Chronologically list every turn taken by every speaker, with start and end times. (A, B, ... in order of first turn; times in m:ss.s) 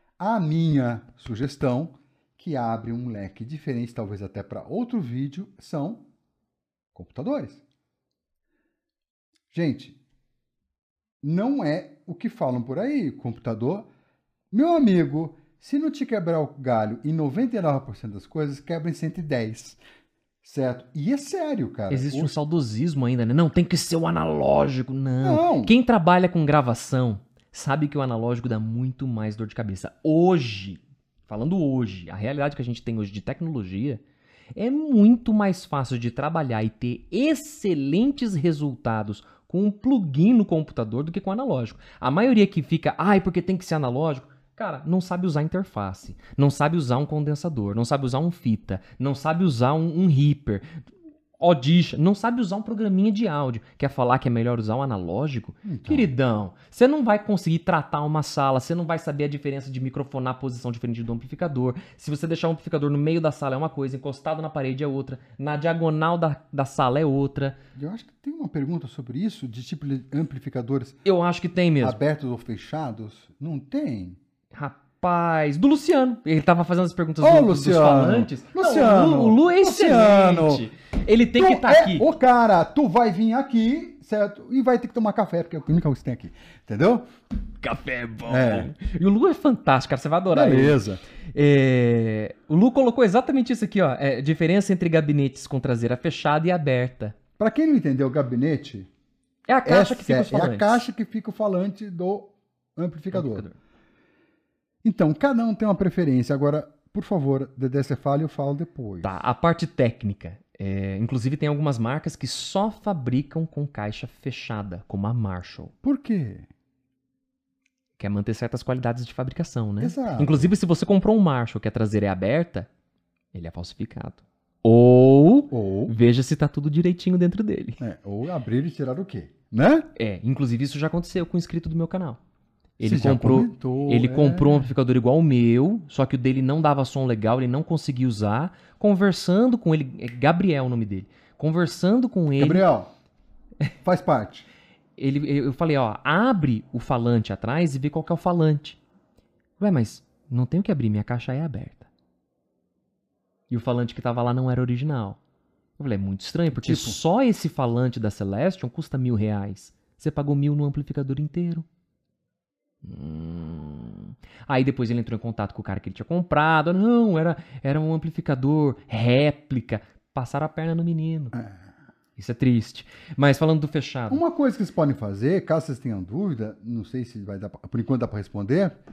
0:00.2-0:06.0 A
0:06.9-0:07.6 A
0:09.5-0:10.0 A
0:11.2-0:13.9 A
0:14.5-0:19.8 A
0:20.4-0:22.4 A
0:21.9-0:34.0 B
0:25.2-0:25.8 A
0:34.6-0:50.7 B
0:51.4-1:07.6 B
0:55.6-0:56.1 A
1:07.8-1:11.0 A
1:11.0-1:12.0 B
1:11.8-1:14.2 A
1:14.5-1:22.1 B
1:17.2-1:20.6 A
1:21.4-1:27.1 A
1:27.6-1:30.8 B
1:28.3-1:28.7 A
1:30.3-1:31.0 A
1:31.3-1:37.2 B
1:37.4-1:38.9 A
1:39.5-1:40.8 B
1:39.7-1:43.5 A
1:43.1-1:43.6 B
1:44.8-1:49.2 A
1:49.0-1:55.7 B
1:55.8-1:56.5 A
1:58.0-2:02.7 B
1:59.8-2:00.5 A
2:03.3-2:07.8 B
2:05.5-2:05.9 A
2:07.8-2:09.9 A
2:10.0-2:12.2 B
2:12.8-2:22.7 B
2:12.8-2:14.7 A
2:22.4-2:22.9 A
2:23.8-2:24.5 A
2:25.0-2:28.8 B
2:29.6-2:31.9 B
2:33.5-2:35.2 B
2:35.8-2:41.7 B
2:36.5-2:37.0 A
2:42.8-2:51.4 B
2:51.4-2:51.7 A
2:52.2-2:54.2 B
2:54.1-2:58.8 A